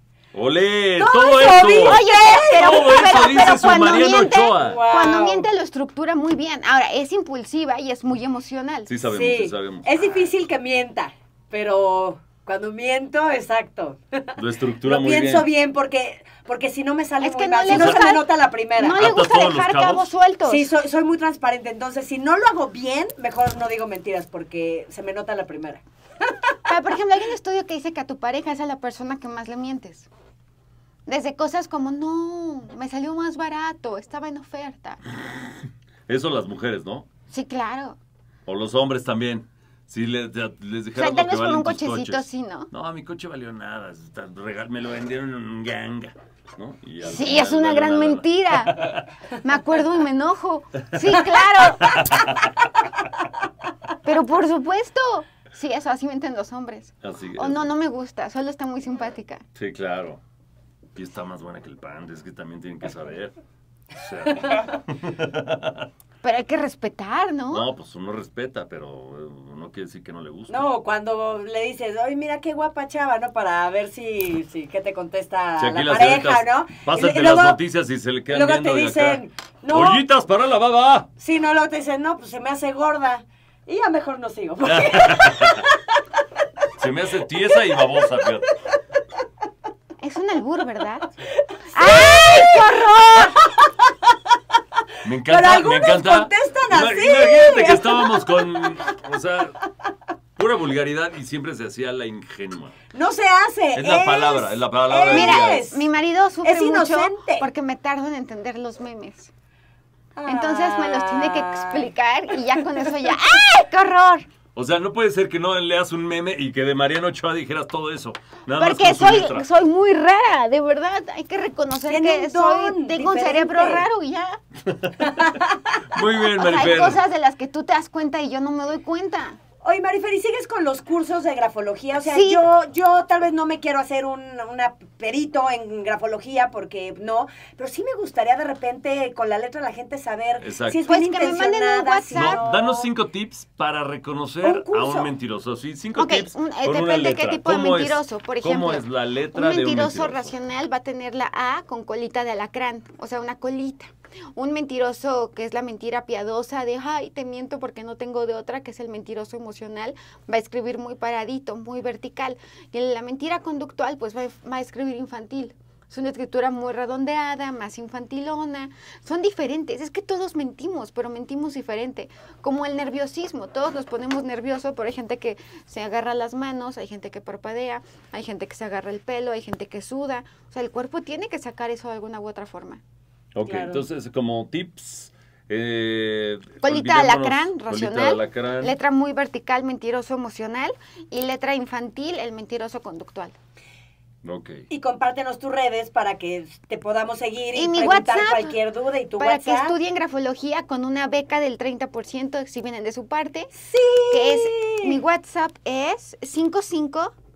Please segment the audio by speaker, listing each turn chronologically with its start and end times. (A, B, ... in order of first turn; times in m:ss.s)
0:00.3-0:04.8 A
0:01.0-0:03.4 B
0:01.4-0:08.9 C
0:04.6-0:05.5 B
0:08.9-0:09.9 A
0:09.1-0:19.0 B
0:14.4-0:15.5 A
0:17.2-0:18.2 C
0:17.7-0:18.1 A
0:18.8-0:20.7 C
0:18.9-0:20.1 A
0:20.4-0:26.4 B
0:26.7-0:30.1 C
0:31.1-0:35.0 C
0:36.1-0:37.1 A
0:37.3-0:38.0 C
0:38.4-0:49.1 A
0:40.9-0:42.7 C
0:47.0-0:48.8 C
0:49.4-0:52.2 C
0:51.6-0:52.5 A
0:54.0-0:59.4 C
0:57.0-0:57.7 A
0:59.5-1:00.2 A
1:01.0-1:03.3 A
1:03.9-1:05.9 A
1:06.2-1:07.6 C
1:07.5-1:10.7 A
1:10.5-1:17.6 B
1:15.6-1:21.1 A
1:18.3-1:20.0 B
1:21.2-1:25.8 B
1:24.6-1:25.6 A
1:26.8-1:28.5 A
1:27.6-1:28.2 B
1:30.0-1:31.1 C
1:31.7-1:33.3 C
1:31.7-1:33.7 B
1:35.0-1:39.6 A
1:35.3-1:38.3 B
1:40.4-1:42.7 A
1:42.9-1:45.8 B
1:43.7-1:45.6 A
1:45.1-1:49.3 C
1:46.4-1:47.5 B
1:50.2-1:53.2 B
1:50.3-1:54.3 C
1:54.5-1:59.4 A
1:58.6-2:04.4 C
2:01.8-2:03.9 B
2:05.0-2:05.6 B
2:05.9-2:07.0 A
2:06.3-2:09.4 C
2:09.6-2:22.9 B
2:12.0-2:12.4 C
2:20.4-2:20.8 A
2:20.8-2:22.4 C
2:22.1-2:30.3 A
2:24.4-2:25.1 B
2:26.0-3:02.8 C
3:03.3-3:08.8 A
3:03.4-3:03.8 B
3:06.6-3:13.4 C
3:14.2-3:14.6 A
3:14.7-3:19.8 B
3:17.5-3:18.6 C
3:19.2-3:23.5 C
3:23.6-3:25.0 B
3:24.1-3:27.1 C